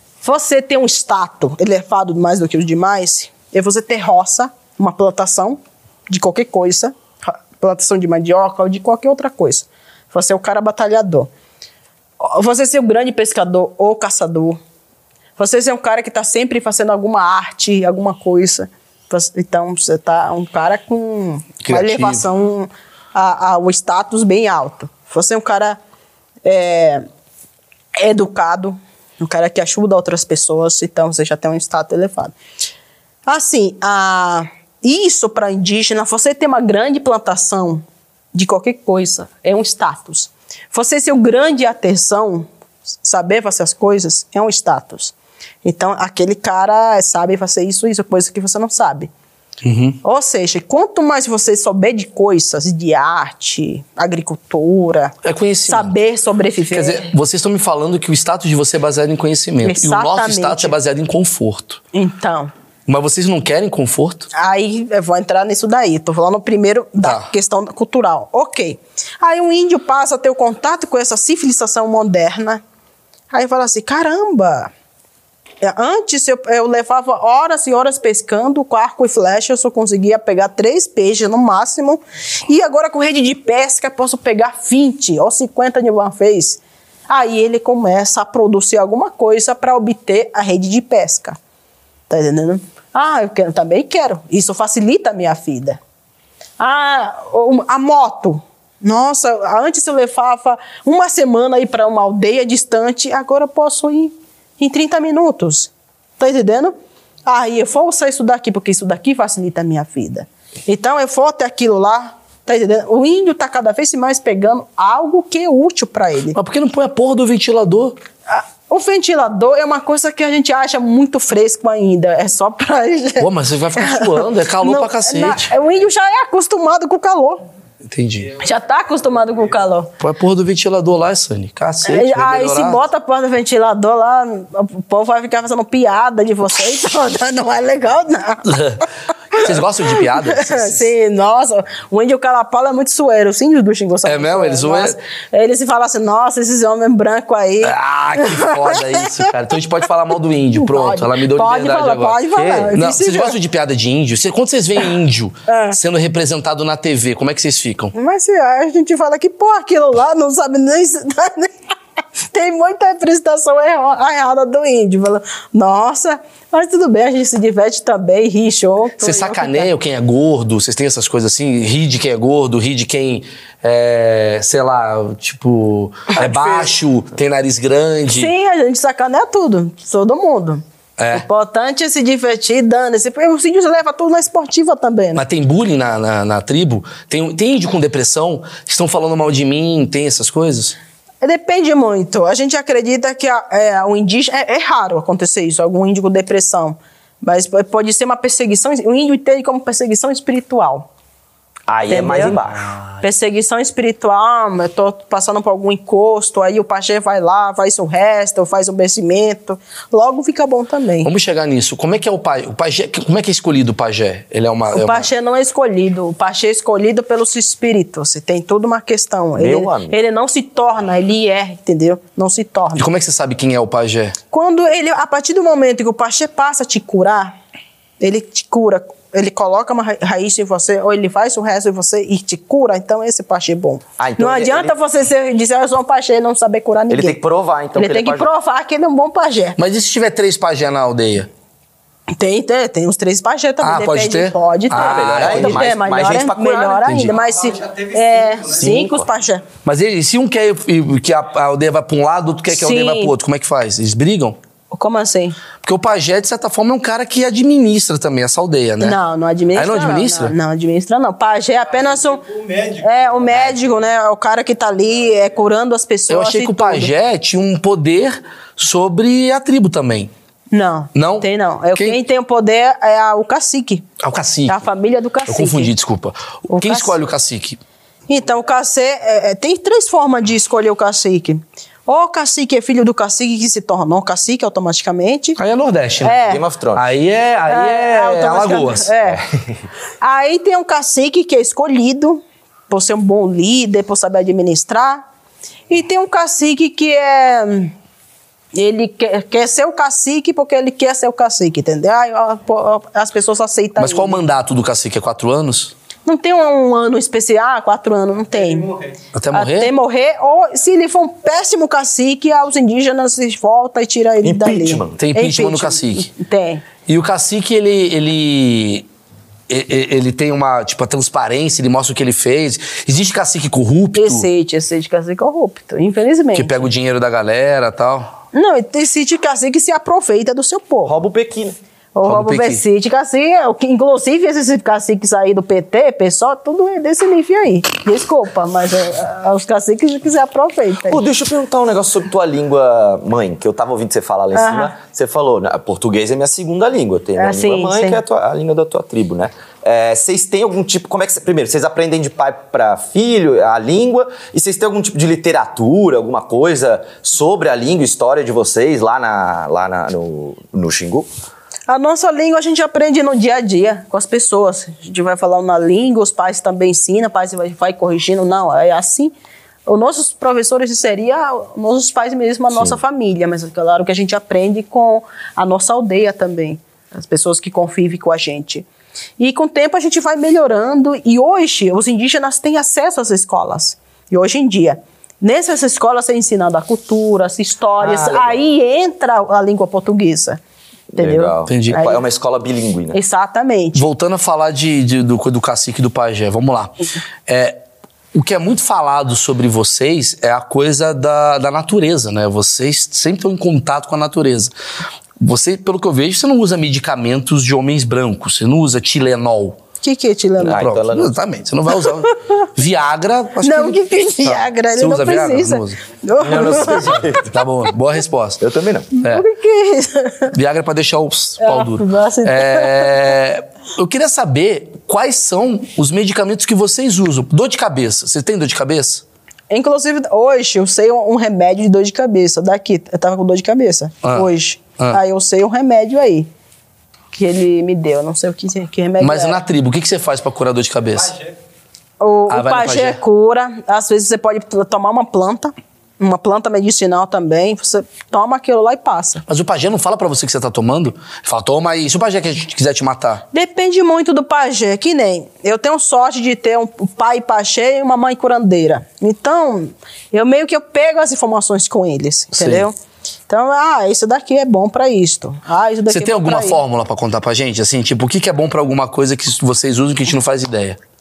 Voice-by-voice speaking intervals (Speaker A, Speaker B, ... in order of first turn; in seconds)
Speaker A: 0.2-11.3, 12.2-14.6, 15.4-25.8, 26.4-27.1, 28.0-32.3, 33.3-37.8, 38.3-42.5, 43.0-49.1, 50.0-55.2, 55.7-57.1, 59.6-60.8, 61.9-62.5, 64.3-72.6, 73.3-74.7, 75.6-91.4, 92.1-95.8, 96.6-106.8, 107.3-116.4, 118.3-127.4, 128.4-129.9, 131.8-138.6, 140.1-149.2, 150.6-153.4, 155.5-155.8, 157.9-161.5, 162.3-169.7, 176.2-176.7, 178.1-180.6, 181.1-185.2, 191.2-200.9, 201.9-202.4, 203.0-211.1, 214.7-222.9, 224.3-227.3, 228.0-237.2, 237.8-239.6, 242.2-249.4, 252.5-253.1, 254.7-255.4, 258.8-262.2, 262.8-266.9, 270.5-273.9, 274.5-275.7, 276.5-277.0, 278.1-285.4, 286.0-286.4, 287.5-289.2, 290.0-295.0, 295.7-297.7, 298.5-304.2, 306.1-308.7, 309.3-316.7, 323.9-326.7, 328.3-330.9, 331.9-341.0, 344.3-344.7, 347.2-348.0, 361.7-369.1, 369.7-378.7, 379.2-390.4, 391.0-392.0, 392.9-393.8, 409.8-410.6, 413.4-417.2, 419.0-420.3, 421.4-423.1, 429.5-436.3, 437.1-439.4, 442.0-449.2, 453.3-462.8, 463.3-466.6
Speaker B: 21.6-22.2, 49.6-50.0, 55.2-55.9, 56.7-61.8, 62.9-64.3, 67.0-67.3, 116.3-118.0, 123.2-125.5, 127.9-128.3, 130.0-132.8, 138.4-140.8, 144.0-145.0, 147.6-152.2, 152.7-157.9, 169.0-178.3, 181.0-181.2, 185.2-190.8, 211.0-215.1, 222.8-224.2, 239.6-241.3, 243.6-245.7, 246.8-247.1, 249.7-254.4, 255.6-259.0, 259.6-260.3, 266.1-270.1, 270.9-272.0, 274.0-274.6, 275.3-277.6, 285.4-288.9, 303.8-305.7, 309.1-309.7, 315.0-316.1, 316.9-318.9, 319.5-324.3, 326.3-328.1, 332.1-332.6, 391.5-391.8, 393.8-397.6, 398.1-404.5, 405.2-409.6, 410.5-415.8, 417.1-418.4, 420.3-429.0, 434.0-435.0, 439.0-441.1, 442.3-443.0, 449.3-453.2, 462.3-462.7, 465.9-470.8
Speaker C: 152.3-152.7, 201.7-202.7, 219.4-220.0, 234.0-234.7, 236.9-238.3, 244.7-247.0, 248.6-249.1, 286.2-286.9, 314.2-315.0, 330.9-331.6, 340.9-361.1, 387.8-388.4, 390.9-393.0, 410.4-411.1, 416.2-417.3, 418.4-418.9
Speaker D: 247.1-248.8, 261.7-263.9, 308.3-309.0, 440.9-441.3